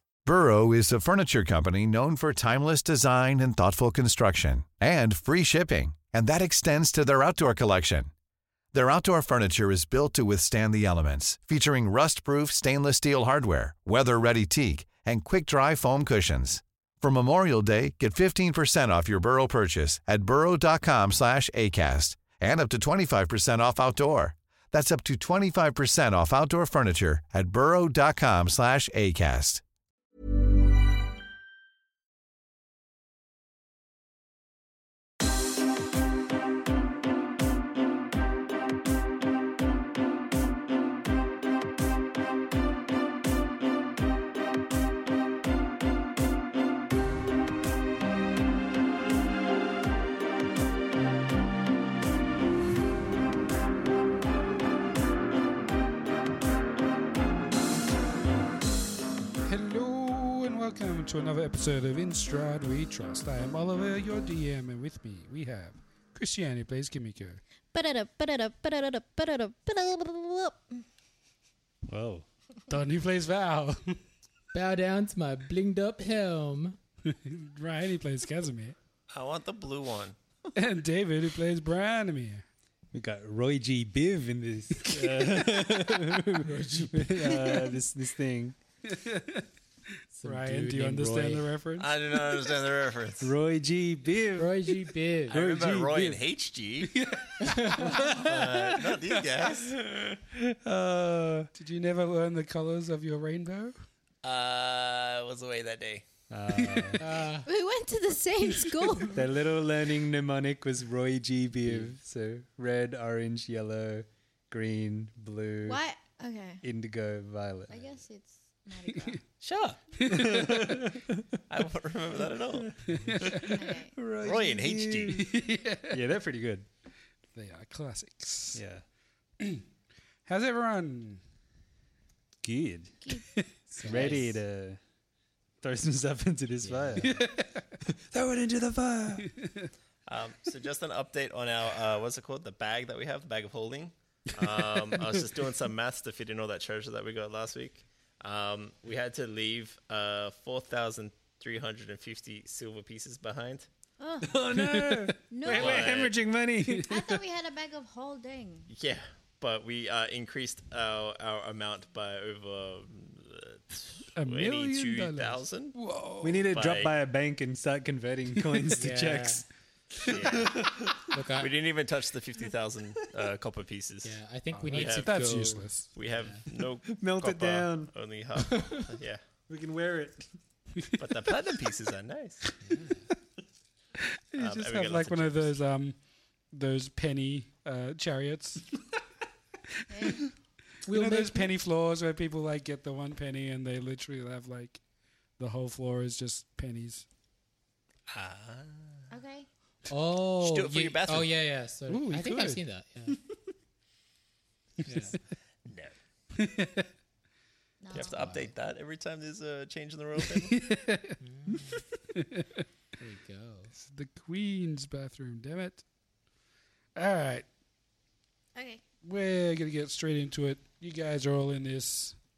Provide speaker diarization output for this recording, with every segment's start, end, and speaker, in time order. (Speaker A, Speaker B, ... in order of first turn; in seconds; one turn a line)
Speaker A: 0.2-8.1
Speaker A: 8.7-29.6
Speaker B: 59.5-67.4
Speaker C: 67.7-70.8
Speaker D: 71.9-72.2
Speaker B: 72.7-74.0
Speaker E: 74.5-76.8
Speaker B: 77.1-78.8
Speaker F: 79.1-80.2
Speaker B: 80.5-82.4
Speaker D: 82.9-88.6
Speaker B: 84.8-85.6
Speaker E: 86.4-87.1
Speaker B: 87.0-87.8
Speaker B: 88.8-89.5
Speaker E: 90.2-91.5
Speaker B: 90.2-92.3
Speaker F: 91.8-93.3
Speaker D: 93.2-96.2
Speaker E: 94.4-95.4
Speaker F: 95.3-97.0
Speaker B: 96.9-97.3
Speaker E: 97.4-98.0
Speaker D: 97.6-101.5
Speaker F: 98.0-99.8
Speaker B: 101.6-103.8
Speaker F: 104.2-106.0
Speaker D: 106.3-107.0
Speaker B: 106.6-107.1
Speaker E: 107.0-107.5
Speaker C: 107.5-109.2
Speaker B: 108.5-108.9
Speaker D: 109.1-115.8
Speaker C: 115.7-116.6
Speaker D: 116.6-118.0
Speaker C: 117.7-119.2
Speaker F: 119.4-119.8
Speaker B: 120.0-120.9
Speaker D: 120.1-121.3
Speaker F: 121.5-123.5
Speaker D: 122.4-126.7
Speaker B: 122.9-123.6
Speaker C: 123.5-123.9
Speaker F: 124.2-125.3
Speaker B: 125.1-126.0
Speaker B: 127.3-128.6
Speaker D: 128.5-128.8
Speaker B: 129.4-129.7
Speaker B: 130.3-131.2
Speaker D: 132.4-133.0
Speaker C: 133.0-133.3
Speaker E: 133.7-134.4
Speaker D: 133.8-134.8
Speaker D: 135.6-137.3
Speaker E: 136.6-137.1
Speaker B: 137.0-137.7
Speaker D: 137.8-139.3
Speaker B: 139.2-139.7
Speaker F: 140.1-153.7
Speaker C: 154.0-154.4
Speaker D: 154.2-157.2
Speaker B: 154.5-155.2
Speaker C: 155.3-156.0
Speaker F: 155.5-156.2
Speaker C: 156.8-158.7
Speaker F: 158.7-165.8
Speaker B: 164.2-166.5
Speaker D: 166.2-171.0
Speaker F: 166.5-166.9
Speaker E: 168.7-169.4
Speaker F: 170.0-170.7
Speaker E: 171.1-171.5
Speaker F: 171.4-174.2
Speaker E: 174.0-176.4
Speaker B: 174.6-175.9
Speaker F: 174.7-175.4
Speaker F: 175.9-179.2
Speaker D: 176.9-177.9
Speaker E: 178.5-178.9
Speaker D: 179.5-180.3
Speaker F: 181.0-182.4
Speaker E: 182.6-183.1
Speaker B: 184.0-186.0
Speaker F: 184.4-185.6
Speaker B: 186.5-188.8
Speaker C: 189.9-190.2
Speaker B: 189.9-190.3
Speaker B: 190.8-194.8
Speaker E: 190.9-191.5
Speaker B: 195.4-197.1
Speaker F: 198.1-199.1
Speaker C: 199.1-199.5
Speaker E: 199.9-203.2
Speaker F: 200.4-201.3
Speaker B: 201.9-202.6
Speaker B: 204.8-205.1
Speaker E: 204.8-205.2
Speaker F: 205.7-205.9
Speaker B: 206.3-206.9
Speaker C: 207.8-208.3
Speaker E: 207.9-208.5
Speaker F: 207.9-210.6
Speaker B: 210.4-211.2
Speaker E: 211.2-211.8
Speaker B: 211.7-212.7
Speaker E: 213.0-213.7
Speaker B: 213.8-215.8
Speaker B: 216.9-217.5
Speaker C: 218.6-218.8
Speaker B: 219.0-222.2